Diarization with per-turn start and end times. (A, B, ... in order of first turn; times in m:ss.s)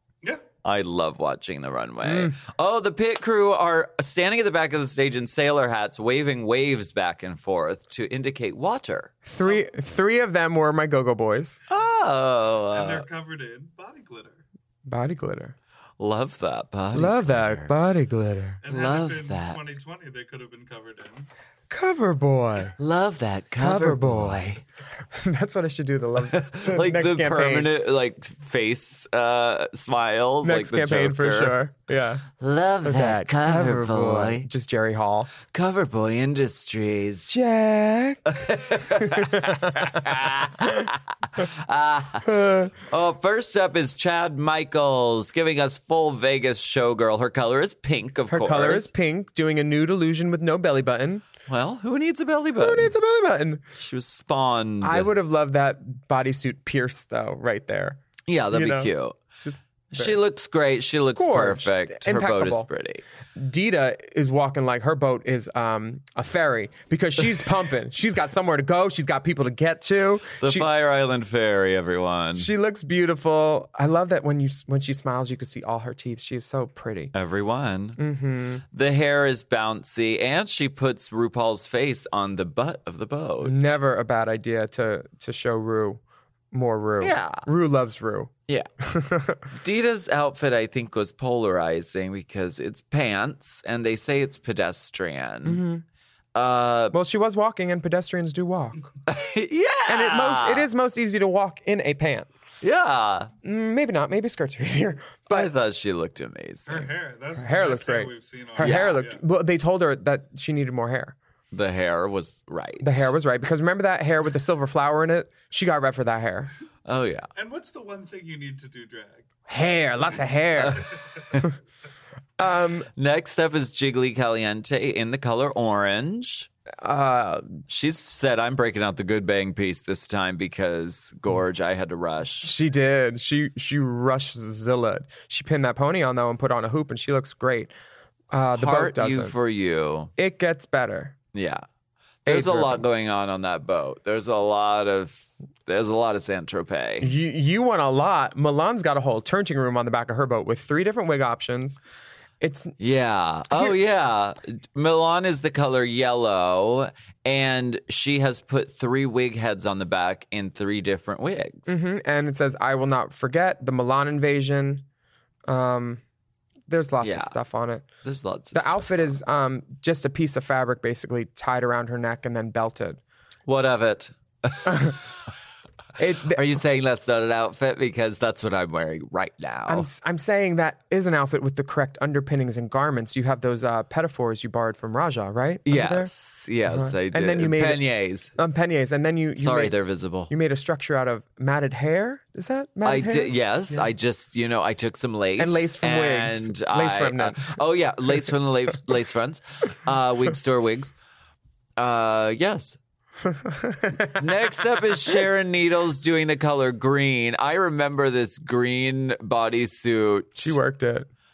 0:00.6-0:09.1 A
0:02.0-0:02.4 B
0:09.2-0:11.6 B
0:11.7-0:13.0 A
0:12.7-0:14.4 C
0:14.8-0:15.6 B
0:16.0-0:17.7 A
0:16.9-0:18.6 B
0:18.6-0:21.3 C
0:18.7-0:19.6 A
0:21.7-0:22.8 B
0:22.8-0:24.6 A
0:23.6-0:27.7 B
0:26.3-0:31.6 A
0:30.4-0:32.3 B
0:32.4-0:34.5 A
0:32.8-0:35.3 B
0:35.4-0:37.3 A
0:37.3-0:40.1 B
0:38.3-0:48.9 A
0:40.6-0:40.9 B
0:42.2-0:42.7 B
0:48.3-0:51.2 B
0:51.5-0:52.9 A
0:52.6-0:53.6 B
0:53.8-0:55.1 A
0:54.8-0:58.0 B
0:58.3-0:59.2 A
0:58.5-1:00.2 B
0:59.9-1:03.0 A
1:01.2-1:02.7 B
1:03.3-1:10.7 B
1:10.4-1:12.5 A
1:12.3-1:17.1 B
1:17.1-1:18.0 A
1:18.0-1:18.6 B
1:18.7-1:23.7 A
1:23.4-1:26.0 B
1:26.5-1:28.3 B
1:27.0-1:27.4 A
1:28.8-1:29.4 B
1:29.5-1:35.6 A
1:35.4-1:35.8 B
1:36.3-1:37.0 A
1:36.9-1:38.9 B
1:39.1-1:40.7 A
1:39.9-1:42.3 B
1:42.6-1:43.3 A
1:43.4-1:45.5 B
1:45.3-1:46.9 A
1:46.7-1:49.2 C
1:47.4-1:51.2 B
1:48.6-1:49.0 A
1:51.5-1:53.1 A
1:52.8-1:56.5 B
1:56.8-1:57.3 A
1:57.4-1:59.3 C
1:59.5-2:00.9 B
2:00.6-2:01.5 A
2:00.8-2:01.2 C
2:02.4-2:02.9 B
2:03.0-2:06.5 A
2:06.8-2:07.6 B
2:07.7-2:12.5 A
2:12.4-2:17.7 B
2:18.3-2:19.4 B
2:18.5-2:20.1 A
2:20.2-2:21.2 B
2:21.3-2:21.6 A
2:22.2-2:27.1 A
2:22.2-2:22.8 B
2:27.0-2:31.8 B
2:32.4-2:32.8 B
2:32.8-2:41.7 A
2:33.5-2:33.8 B
2:41.7-2:44.8 B
2:45.5-2:46.0 B
2:46.7-2:47.9 B
2:47.0-2:47.3 A
2:48.0-2:49.1 A
2:48.5-2:53.0 B
2:53.5-2:55.1 A
2:54.6-2:54.9 B
2:56.0-2:56.6 B
2:56.3-2:59.9 A
2:59.7-3:06.1 B
3:05.6-3:08.3 A
3:06.7-3:09.7 B
3:09.4-3:10.3 A
3:10.3-3:14.0 B
3:12.8-3:20.9 A
3:15.4-3:17.6 B
3:21.8-3:22.8 A
3:23.5-3:24.2 B
3:24.0-3:30.6 A
3:30.4-3:31.1 B